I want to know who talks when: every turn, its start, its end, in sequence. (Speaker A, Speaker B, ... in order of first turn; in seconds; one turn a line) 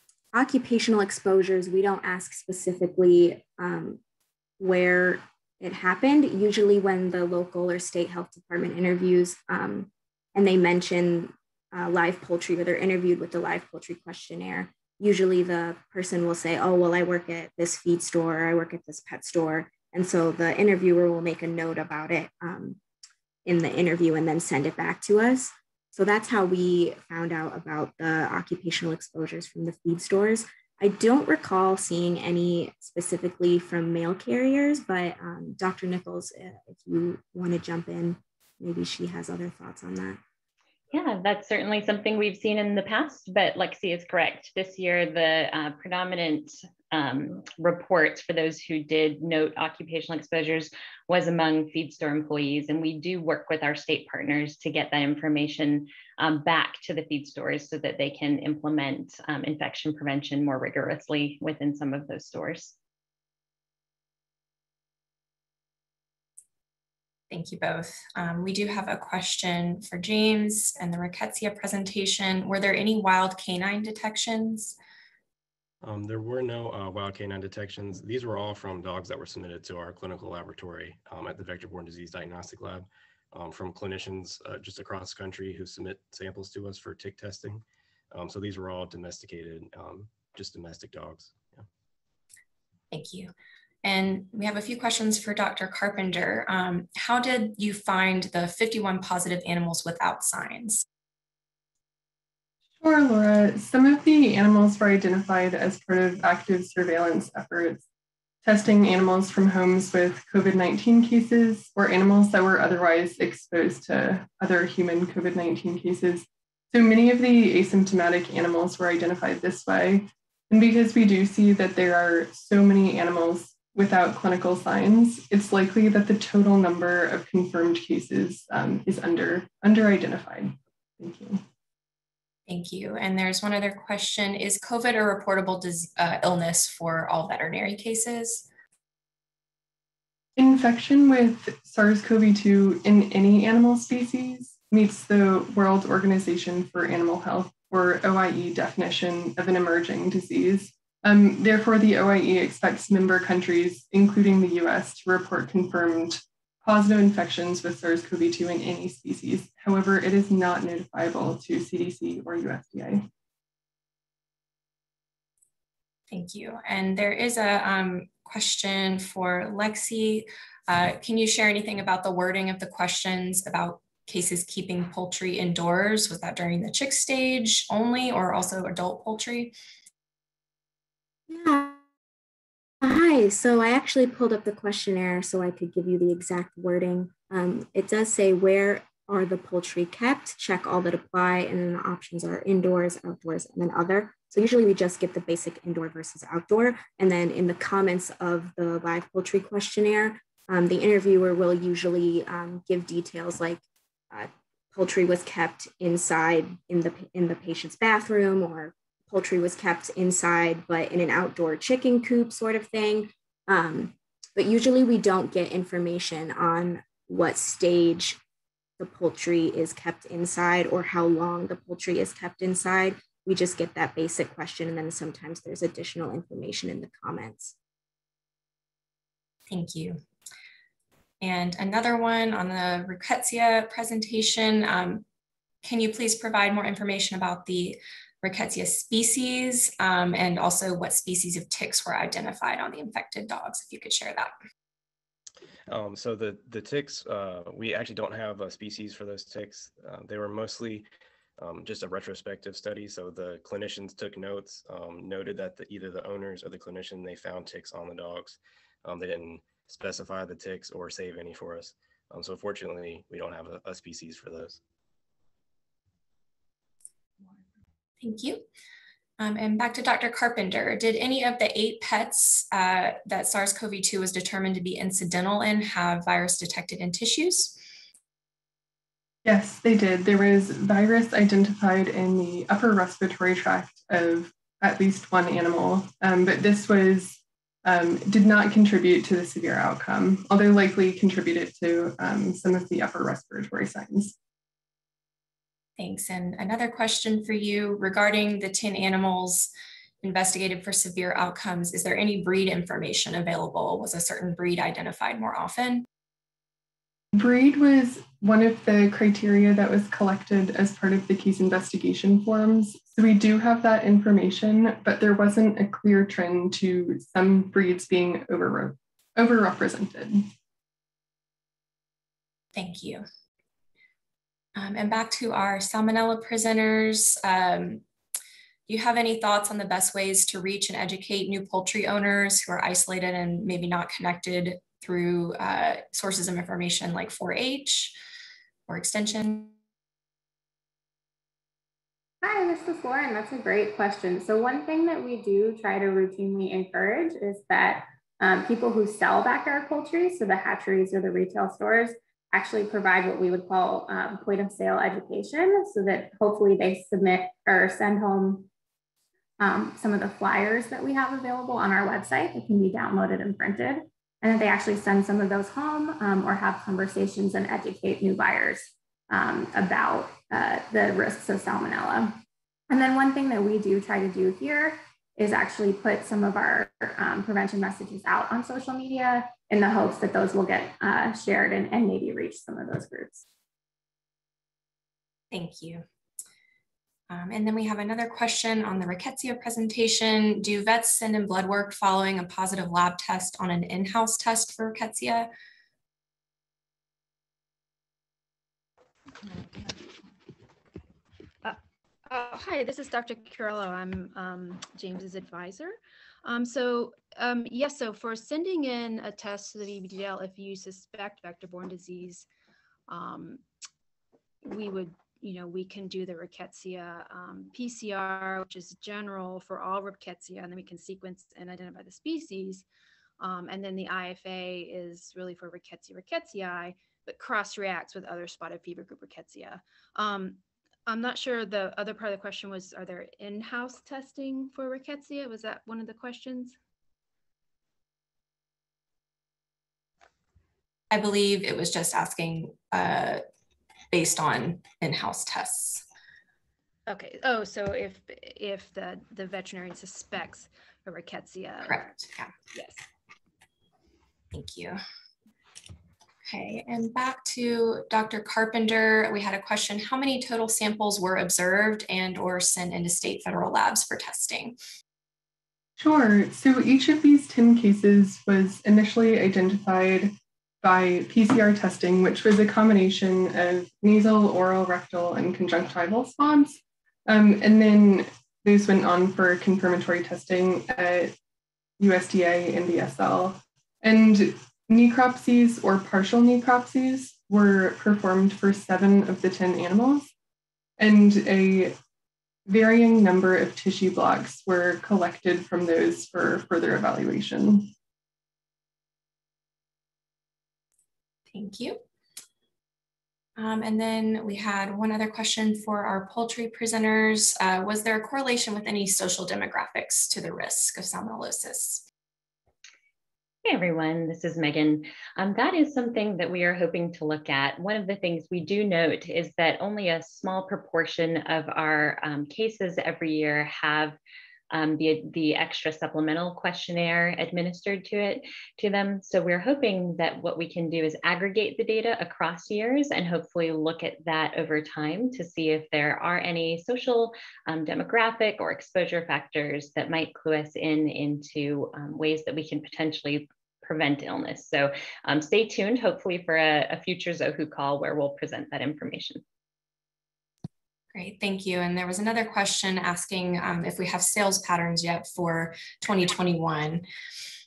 Speaker A: 0.3-4.0
Speaker A: 4.6-22.8
Speaker A: 23.4-40.2
Speaker B: 40.9-62.8
Speaker C: 67.3-74.8
Speaker D: 75.8-91.7
Speaker C: 92.9-93.3
Speaker C: 93.8-100.8
Speaker E: 102.8-107.8
Speaker E: 108.4-131.4
Speaker C: 132.5-138.5
Speaker E: 140.4-163.1
Speaker C: 166.1-179.5
Speaker A: 181.3-181.8
Speaker A: 182.8-218.2
Speaker A: 218.8-227.5
Speaker C: 229.5-230.0
Speaker C: 231.2-235.0
Speaker C: 235.6-244.3
Speaker D: 245.7-250.8
Speaker D: 251.4-264.6
Speaker C: 268.0-268.4
Speaker C: 269.2-277.6
Speaker E: 279.2-294.1
Speaker C: 295.8-305.9
Speaker E: 307.1-320.3
Speaker C: 322.5-323.0
Speaker C: 324.6-327.8
Speaker C: 328.7-338.0
Speaker C: 338.7-339.5
Speaker F: 342.2-358.5
Speaker F: 359.4-372.1
Speaker F: 372.7-383.2
Speaker C: 385.3-385.8
Speaker C: 387.1-395.3
Speaker G: 399.2-399.8
Speaker G: 401.4-412.2
Speaker G: 412.9-413.4
Speaker G: 414.4-422.6
Speaker G: 423.2-436.6
Speaker C: 440.9-443.2
Speaker C: 443.9-445.8
Speaker G: 446.9-452.8
Speaker C: 451.6-452.3
Speaker C: 454.3-454.8
Speaker C: 456.2-464.6
Speaker E: 465.8-481.1
Speaker E: 481.8-490.1
Speaker E: 490.8-491.7
Speaker E: 492.5-497.7
Speaker C: 501.3-501.8
Speaker C: 503.4-511.8
Speaker B: 513.4-524.0
Speaker B: 524.5-549.2
Speaker C: 550.9-556.9